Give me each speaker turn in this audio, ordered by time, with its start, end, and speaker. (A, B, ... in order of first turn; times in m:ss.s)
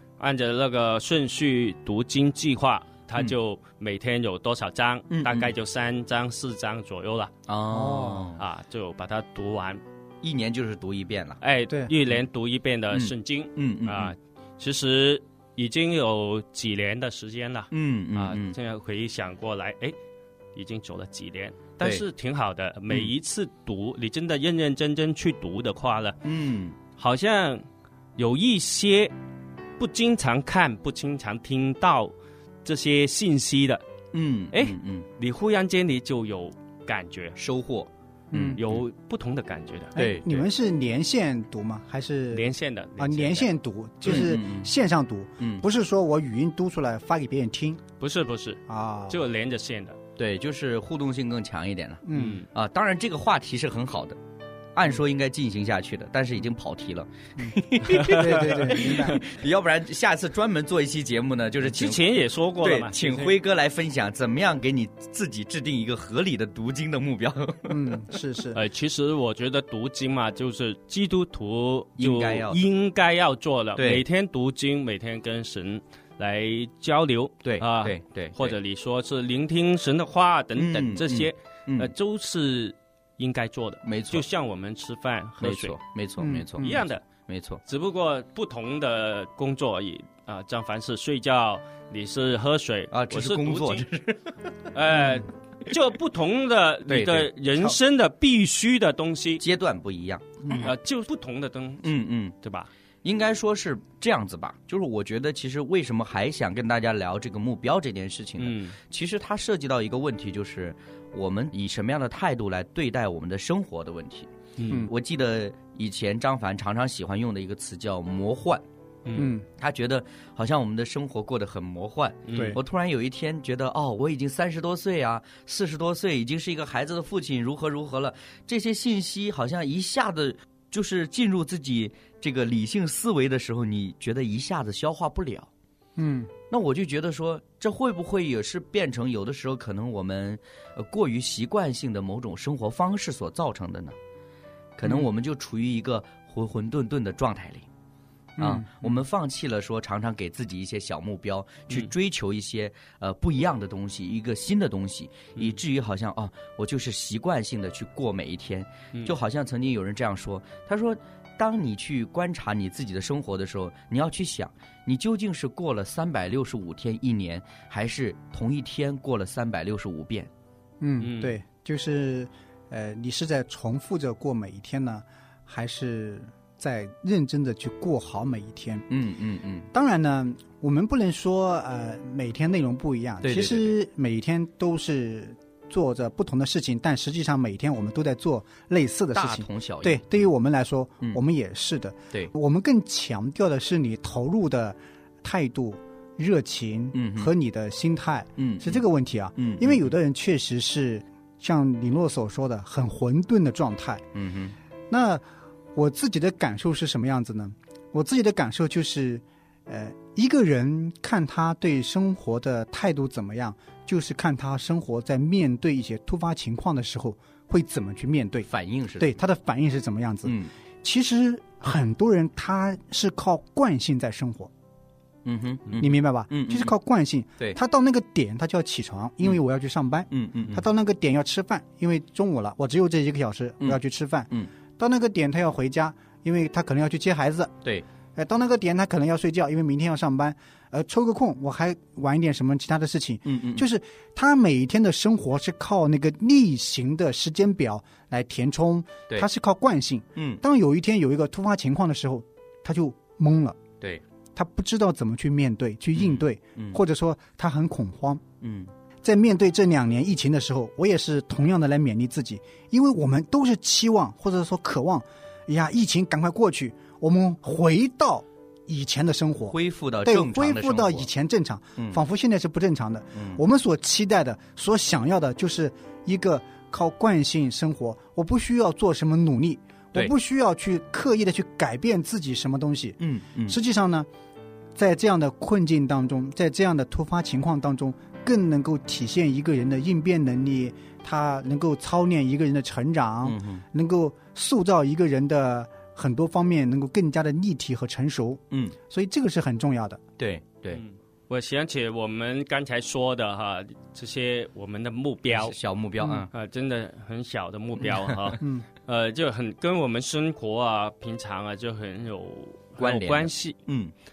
0:00.2-0:07.3 A
0:05.1-0:05.5 B
0:07.5-0:08.4 B
0:07.7-0:08.3 C
0:08.4-0:09.8 A
0:10.2-0:11.4 B
0:11.4-0:20.0 A
0:12.9-0:14.1 B
0:17.7-0:18.6 B
0:20.6-0:26.2 A
0:26.2-0:26.8 B
0:27.0-0:27.6 A
0:28.2-0:29.1 A
0:29.8-0:32.1 A
0:32.6-0:33.8 A
0:34.1-0:35.1 B
0:34.5-0:37.4 A
0:37.4-0:38.8 B
0:38.3-0:38.6 C
0:38.6-0:40.0 A
0:40.0-0:40.4 B
0:40.0-0:47.8 C
0:42.3-0:43.5 A
0:44.0-0:44.7 B
0:48.0-0:50.0 A
0:48.7-0:49.2 C
0:50.2-0:54.2 B
0:52.0-0:52.4 C
0:52.1-0:52.5 A
0:54.8-1:07.8 B
0:57.4-0:59.2 C
0:57.8-0:59.0 A
1:01.6-1:03.4 A
1:07.7-1:08.6 C
1:08.6-1:25.8 A
1:12.0-1:12.6 B
1:13.8-1:14.0 B
1:17.4-1:18.6 B
1:20.6-1:21.9 B
1:23.8-1:24.3 B
1:25.4-1:27.6 B
1:26.2-1:26.8 C
1:26.6-1:27.0 A
1:27.7-1:33.8 A
1:32.9-1:34.2 B
1:34.7-1:39.4 A
1:36.9-1:37.8 B
1:39.4-1:40.7 B
1:40.6-1:41.9 A
1:41.8-1:42.3 B
1:42.4-1:42.7 A
1:43.0-1:58.6 B
1:48.4-1:48.8 A
1:54.6-1:54.9 A
1:59.1-1:59.3 A
1:59.2-1:59.4 C
1:59.6-2:15.5 B
2:02.3-2:02.6 A
2:16.0-2:16.3 C
2:16.5-2:24.0 B
2:24.8-2:27.7 B
2:28.4-2:28.9 C
2:28.4-2:50.3 B
2:50.8-2:58.9 C
2:51.0-2:51.4 A
2:58.9-2:59.7 B
2:59.7-3:24.1 C
3:03.2-3:03.7 B
3:09.2-3:10.3 B
3:16.9-3:17.3 B
3:18.4-3:18.8 B
3:19.4-3:19.9 B
3:24.2-3:24.6 B
3:24.9-3:25.2 C
3:25.8-3:44.5 C
3:38.5-3:39.1 B
3:40.2-3:40.5 B
3:45.2-3:46.7 B
3:45.8-3:57.5 C
3:50.1-3:50.6 B
3:58.2-4:13.6 C
4:03.2-4:03.7 B
4:10.2-4:10.4 B
4:14.4-4:18.2 C
4:16.0-4:16.8 B
4:18.4-4:18.7 B
4:19.0-4:44.1 C
4:29.5-4:31.1 B
4:33.2-4:33.4 B
4:43.0-4:43.6 B
4:44.8-5:00.0 C
4:53.2-4:53.6 B
4:58.5-4:58.8 B
5:00.2-5:00.8 B
5:00.7-5:05.6 A
5:05.3-5:06.3 B
5:06.3-5:13.6 A
5:08.4-5:08.7 C
5:12.8-5:13.9 B